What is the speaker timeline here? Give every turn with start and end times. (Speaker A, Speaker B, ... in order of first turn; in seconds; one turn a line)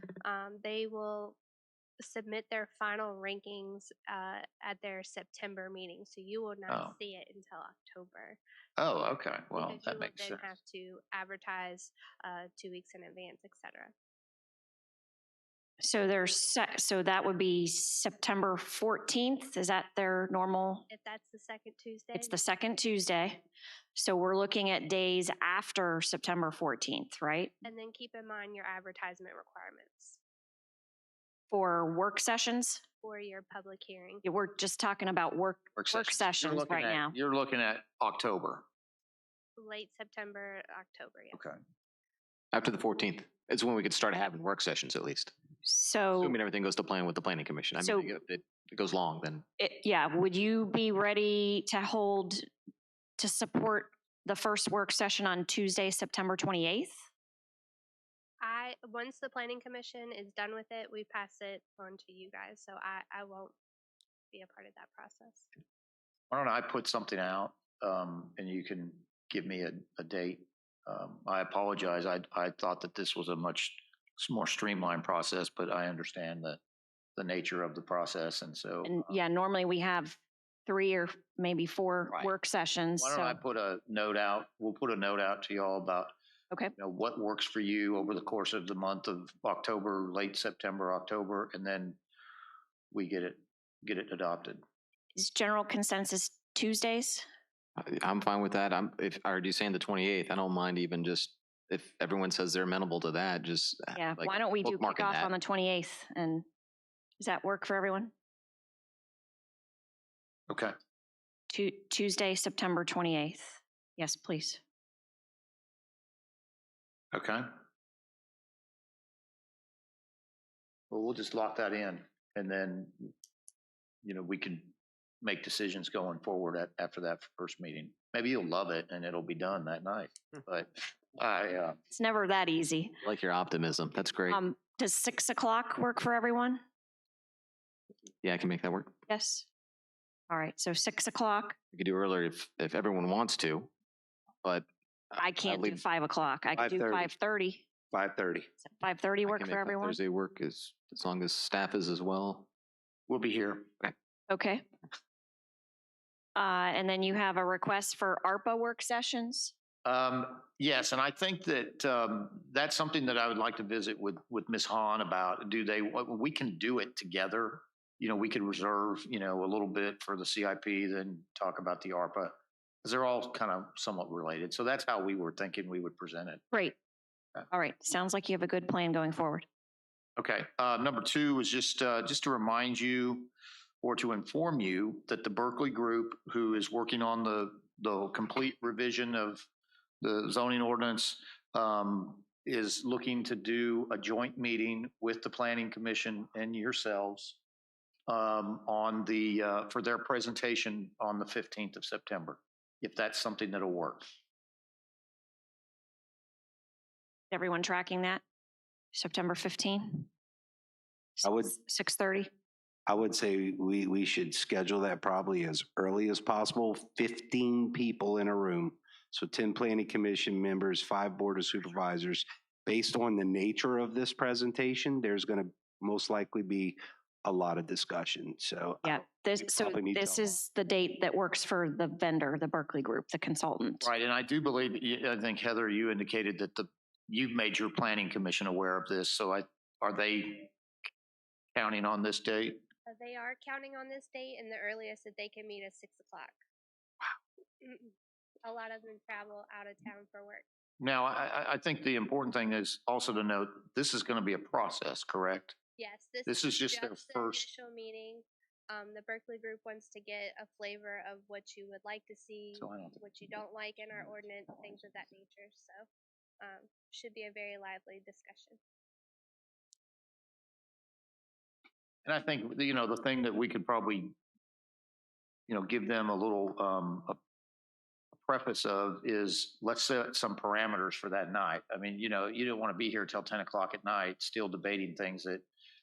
Speaker A: 0.2-1.4
Speaker A: 2.0-8.4
Speaker B: 6.7-7.0
Speaker B: 8.8-10.5
Speaker A: 9.5-13.9
Speaker C: 15.8-20.9
Speaker A: 20.9-22.4
Speaker C: 22.1-23.4
Speaker C: 23.9-27.6
Speaker A: 27.6-30.2
Speaker C: 31.5-32.8
Speaker A: 33.0-34.2
Speaker C: 34.2-37.1
Speaker B: 35.8-38.7
Speaker A: 39.6-41.4
Speaker B: 41.3-41.6
Speaker D: 42.5-45.3
Speaker C: 45.6-46.4
Speaker D: 46.2-49.5
Speaker C: 47.8-48.1
Speaker C: 49.6-52.5
Speaker C: 53.2-57.0
Speaker A: 58.4-63.5
Speaker A: 64.3-65.5
Speaker B: 66.3-76.6
Speaker B: 77.2-79.1
Speaker C: 78.8-83.4
Speaker B: 83.0-86.1
Speaker B: 86.8-92.0
Speaker B: 92.9-94.6
Speaker C: 95.2-97.3
Speaker D: 97.8-105.3
Speaker C: 104.0-106.5
Speaker C: 107.2-108.1
Speaker C: 111.5-114.6
Speaker B: 117.1-117.5
Speaker B: 120.9-123.1
Speaker B: 124.0-131.8
Speaker C: 131.9-132.9
Speaker D: 133.0-134.4
Speaker C: 134.3-136.6
Speaker D: 138.2-138.9
Speaker C: 139.1-139.5
Speaker C: 140.3-141.6
Speaker D: 141.7-143.7
Speaker D: 144.4-145.8
Speaker C: 145.2-147.7
Speaker E: 146.6-147.1
Speaker E: 147.9-148.5
Speaker C: 148.7-150.0
Speaker D: 149.2-152.5
Speaker B: 153.1-153.7
Speaker C: 154.3-154.7
Speaker C: 156.4-159.5
Speaker B: 159.8-176.4
Speaker C: 177.5-179.5
Speaker B: 180.2-183.3
Speaker B: 183.8-189.5
Speaker B: 190.0-197.4
Speaker B: 198.1-204.1
Speaker C: 207.3-208.2
Speaker C: 208.9-210.1
Speaker C: 211.2-212.3
Speaker E: 211.2-211.5
Speaker E: 212.9-230.3
Speaker C: 228.8-233.9
Speaker B: 233.8-240.5
Speaker B: 241.6-242.6
Speaker A: 242.9-246.4
Speaker A: 247.6-247.9
Speaker A: 248.4-250.4
Speaker B: 250.8-255.6
Speaker A: 255.8-265.9
Speaker B: 256.3-257.5
Speaker B: 262.5-263.0
Speaker A: 266.4-268.6
Speaker B: 272.1-274.2
Speaker B: 275.5-277.2
Speaker B: 278.2-285.5